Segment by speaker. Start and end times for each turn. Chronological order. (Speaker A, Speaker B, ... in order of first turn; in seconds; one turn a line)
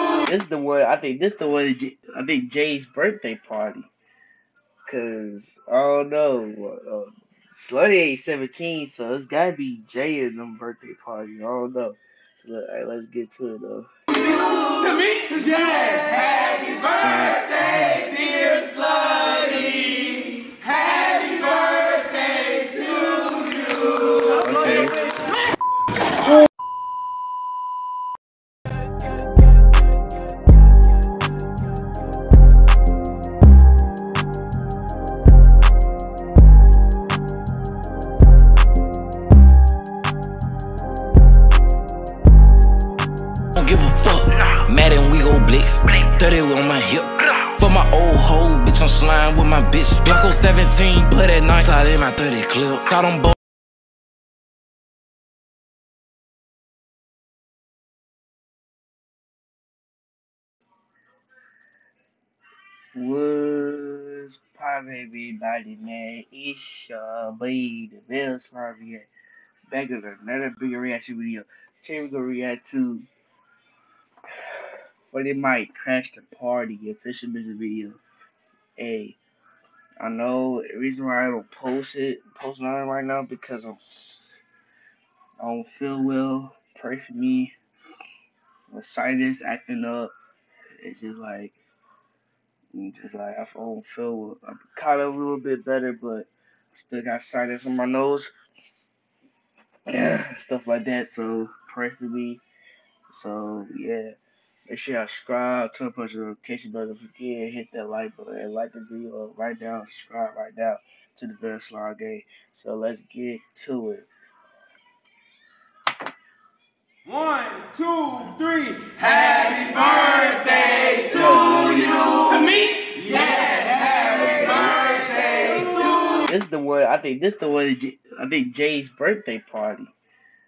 Speaker A: 0.2-3.9
Speaker A: 4.9-13.9
Speaker B: 14.8-16.6
Speaker A: 17.0-18.1
Speaker B: 18.3-20.1
Speaker B: 20.9-23.4
Speaker A: 24.4-25.0
Speaker C: 43.5-53.3
Speaker A: 62.9-69.1
Speaker A: 69.7-73.1
Speaker A: 75.1-78.0
Speaker A: 78.8-79.2
Speaker A: 80.0-84.4
Speaker A: 85.4-87.5
Speaker A: 88.7-90.1
Speaker A: 90.8-91.5
Speaker A: 92.7-98.3
Speaker A: 99.9-102.4
Speaker A: 103.1-104.1
Speaker A: 104.7-114.1
Speaker B: 117.2-117.6
Speaker B: 118.3-120.7
Speaker A: 121.0-122.5
Speaker B: 122.6-123.5
Speaker A: 124.1-129.9